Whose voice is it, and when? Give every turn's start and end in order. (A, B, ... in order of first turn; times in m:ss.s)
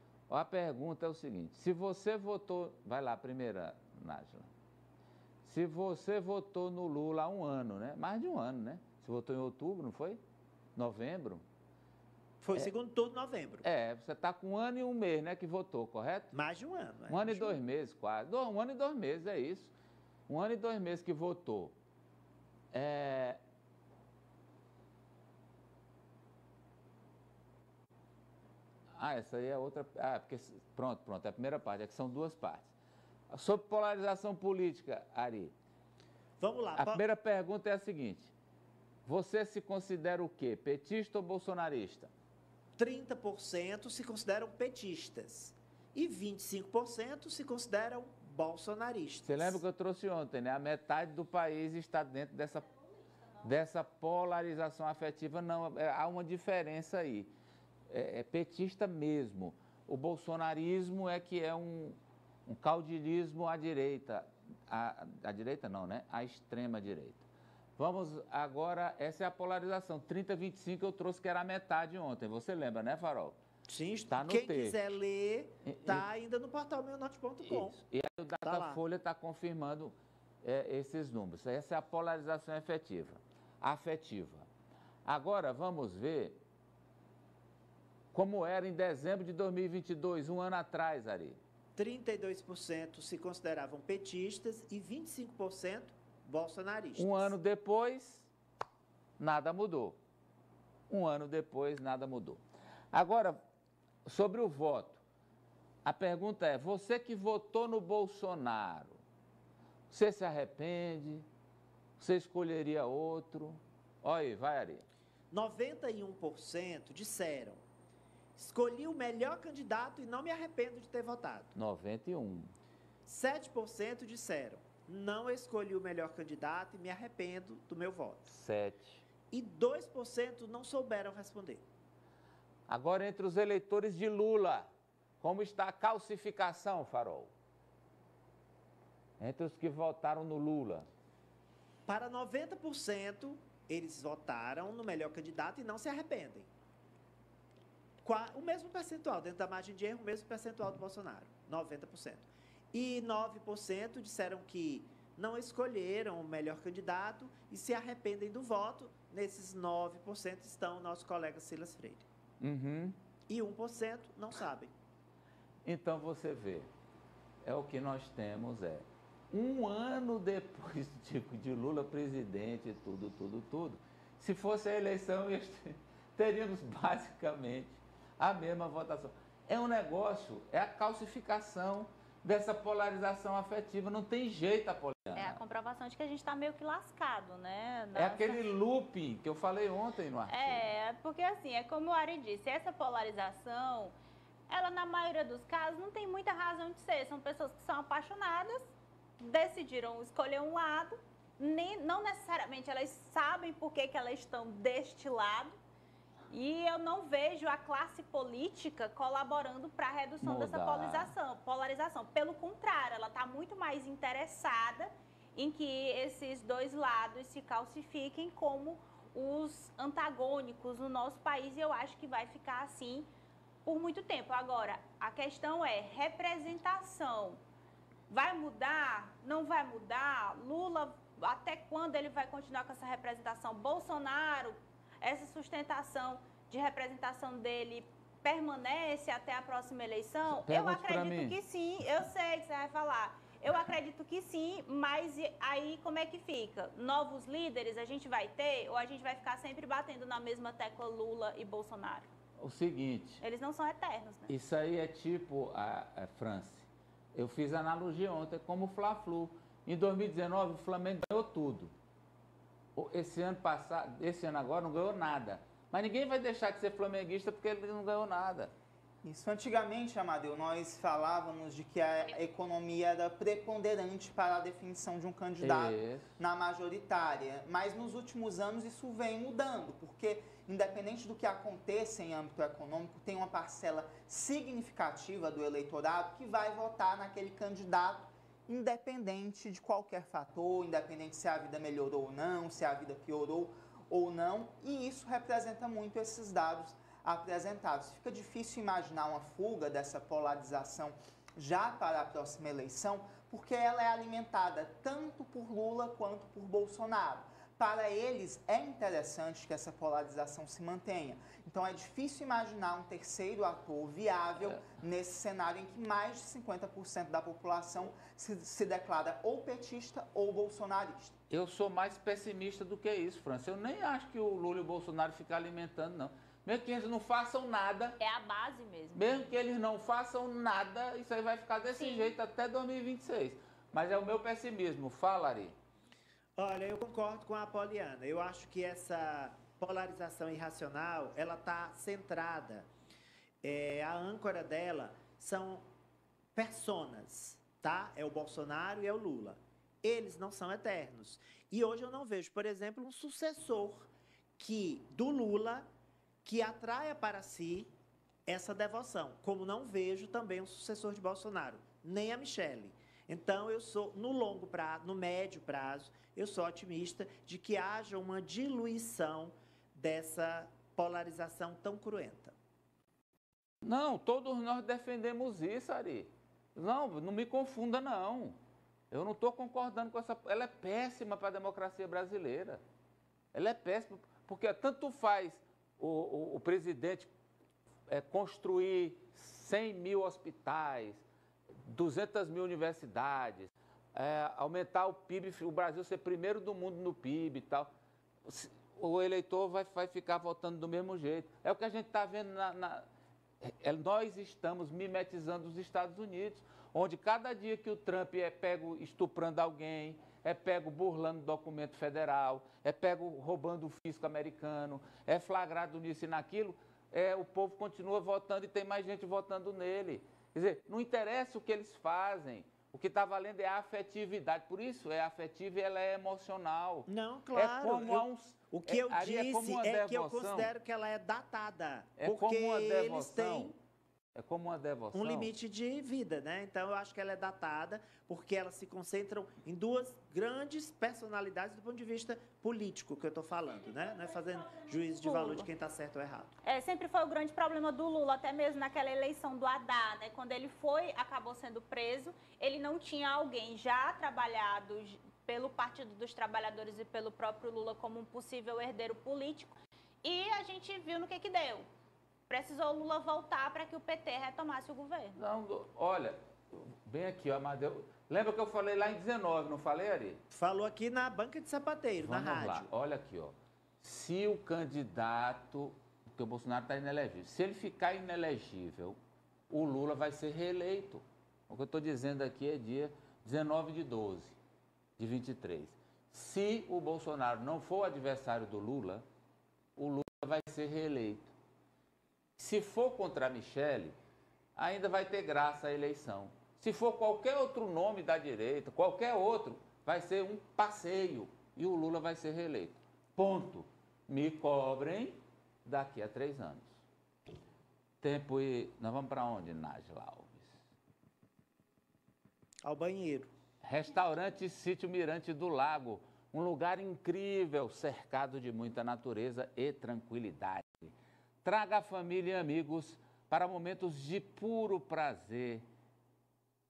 0:00.3-0:04.5 A
0:05.4-0:10.2 A
0:10.8-0:11.4 A
0:12.4-0:13.7 B
0:13.6-0:16.3 A
0:16.3-0:17.6 B
0:17.1-0:19.7 A
0:20.3-0:21.8 A
0:22.7-0:23.4 A
0:28.9-0:32.7 A
0:33.3-0:35.5 A
0:36.4-0:37.0 B
0:36.8-0:38.3 A
0:39.1-0:42.1 A
0:42.8-0:49.6 B
0:49.2-0:52.7 A
0:53.4-0:57.3 A
0:57.9-1:13.4 A
1:13.7-1:17.8 B
1:14.1-1:14.8 A
1:15.6-1:16.0 A
1:17.5-1:24.5 A
1:18.4-1:18.8 B
1:25.0-1:26.4 A
1:28.1-1:31.4 A
1:31.8-1:37.3 B
1:37.0-1:38.3 A
1:39.2-1:40.0 A
1:40.9-1:42.4 A
1:42.9-1:43.4 A
1:44.0-1:45.0 A
1:45.8-1:49.0 A
1:49.9-1:51.3 A
1:52.0-1:54.9 A
1:55.3-1:57.6 B
1:58.4-2:01.6 B
2:01.6-2:02.5 A
2:03.1-2:08.4 B
2:08.3-2:09.0 A
2:09.3-2:11.6 B
2:12.7-2:14.7 A
2:15.2-2:17.3 A
2:19.2-2:20.9 A
2:21.9-2:26.5 B
2:28.0-2:42.1 B
2:42.4-2:43.0 A
2:43.3-2:44.7 B
2:45.6-2:46.7 A
2:47.4-3:05.4 A
3:05.2-3:08.4 C
3:08.0-3:10.7 A
3:10.3-3:14.0 C
3:14.5-3:18.6 C
3:19.2-3:25.5 C
3:26.3-3:43.1 C
3:30.2-3:31.2 A
3:43.6-3:47.4 C
3:48.1-4:12.1 C
4:00.3-4:01.4 A
4:12.4-4:13.2 A
4:13.2-4:14.3 C
4:14.3-4:21.7 A
4:22.8-4:28.5 A
4:29.0-5:21.2 D
4:35.4-4:36.1 A
5:21.3-5:28.0 A
5:28.0-5:29.3 C
5:29.0-5:35.6 A
5:31.8-5:32.1 C
5:36.4-5:42.7 B
5:43.4-5:45.6 B
5:46.4-5:55.7 B
5:56.2-5:57.7 B
5:58.3-6:12.4 B
6:13.6-6:18.4 A
6:18.9-6:22.6 A
6:23.3-6:27.1 A
6:27.9-6:31.0 A
6:31.7-6:37.7 A
6:38.2-6:42.8 A
6:43.4-7:10.5 A
7:06.9-7:13.6 B
7:12.0-7:13.6 A
7:14.2-7:15.3 A
7:14.9-7:26.4 B
7:23.6-7:25.5 C
7:26.4-7:41.7 C
7:42.3-7:45.2 C
7:45.2-7:50.2 A
7:50.3-7:52.7 B
7:52.0-7:59.0 A
7:59.5-8:04.4 A
8:05.0-8:09.0 A
8:09.8-8:11.3 A
8:12.4-8:14.0 A
8:14.6-8:26.7 A
8:28.0-8:30.5 A
8:32.6-8:33.3 B
8:33.6-8:45.6 A